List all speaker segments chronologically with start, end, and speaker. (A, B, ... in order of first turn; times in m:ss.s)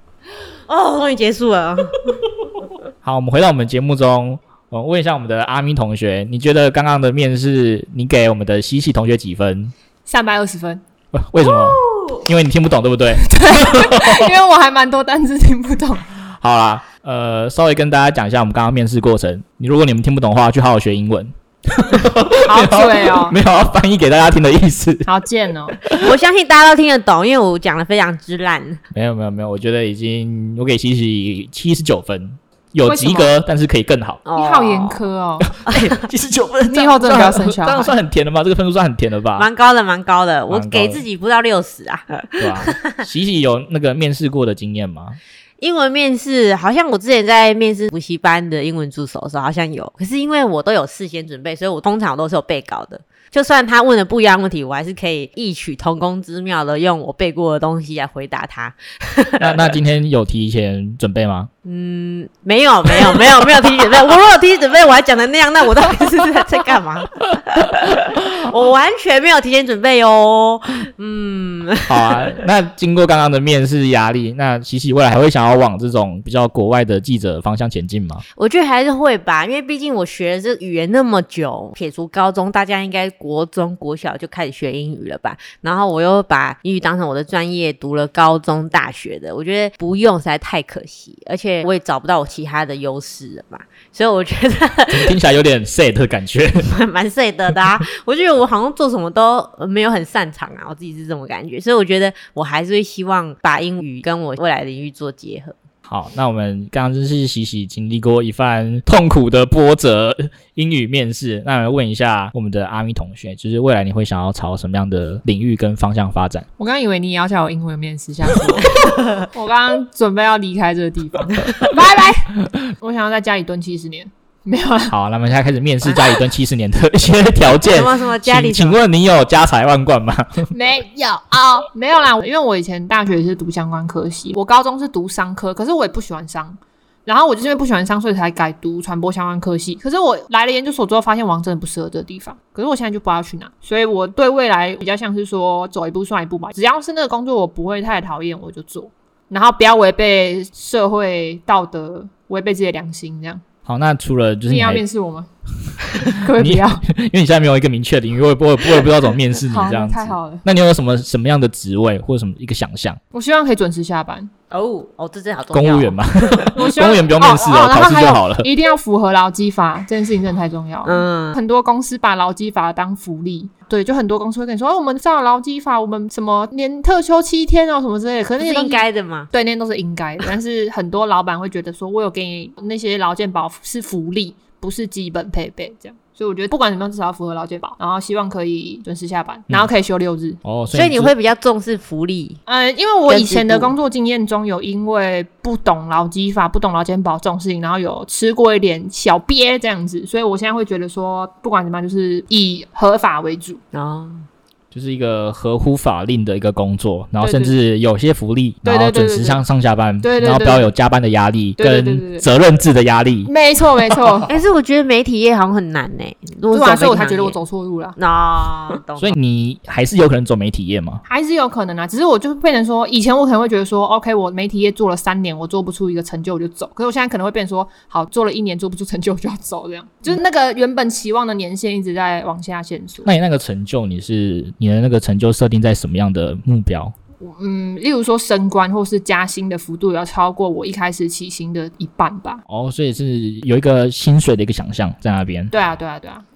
0:00.7-0:02.2 A
0:03.0-0:09.7 B
0:10.1-0:10.8 C
0:11.1-0:14.3 B
0:11.5-0:12.2 A
0:13.2-0:16.1 C
0:16.4-0:25.1 B
0:22.5-0:23.4 C
0:25.1-0:25.8 C
0:25.8-0:26.1 B
0:25.9-0:28.8 A
0:28.9-0:34.2 B
0:32.9-0:33.3 C
0:34.3-0:35.0 A
0:34.4-0:35.5 C
0:35.5-0:39.5 B
0:35.7-0:36.0 A
0:36.7-0:38.0 C
0:39.4-0:43.0 A
0:40.5-0:41.0 B
0:42.4-0:45.2 B
0:45.6-0:59.7 A
0:59.4-1:01.5 B
1:01.6-1:12.4 A
1:11.9-1:18.2 B
1:18.4-1:35.2 A
1:34.9-1:36.7 B
1:36.6-1:45.6 A
1:45.9-1:56.5 B
1:56.6-2:04.9 C
1:59.0-1:59.2 A
2:04.9-2:10.5 B
2:07.6-2:08.8 A
2:10.5-2:33.4 C
2:33.6-2:34.8 B
2:34.5-2:35.3 C
2:36.0-2:36.8 C
2:36.0-2:43.0 B
2:39.3-2:40.4 C
2:43.1-2:44.3 C
2:44.5-2:46.5 A
2:45.5-2:48.5 B
2:46.6-3:10.4 C
2:50.8-2:51.4 A
2:58.4-2:59.3 A
3:10.4-3:11.1 B
3:10.7-3:12.4 A
3:12.5-3:23.6 C
3:13.1-3:13.7 A
3:23.7-3:24.3 A
3:24.7-3:33.3 B
3:27.2-3:27.6 C
3:28.6-3:29.4 C
3:30.0-3:30.7 C
3:31.6-3:32.3 C
3:33.3-3:34.3 C
3:33.9-3:34.2 B
3:34.3-3:37.4 A
3:36.5-3:38.0 C
3:38.0-3:39.2 A
3:39.0-3:41.0 B
3:41.1-3:53.1 C
3:53.0-3:56.9 B
3:57.2-4:02.4 C
4:02.5-4:05.5 B
4:05.5-4:06.2 C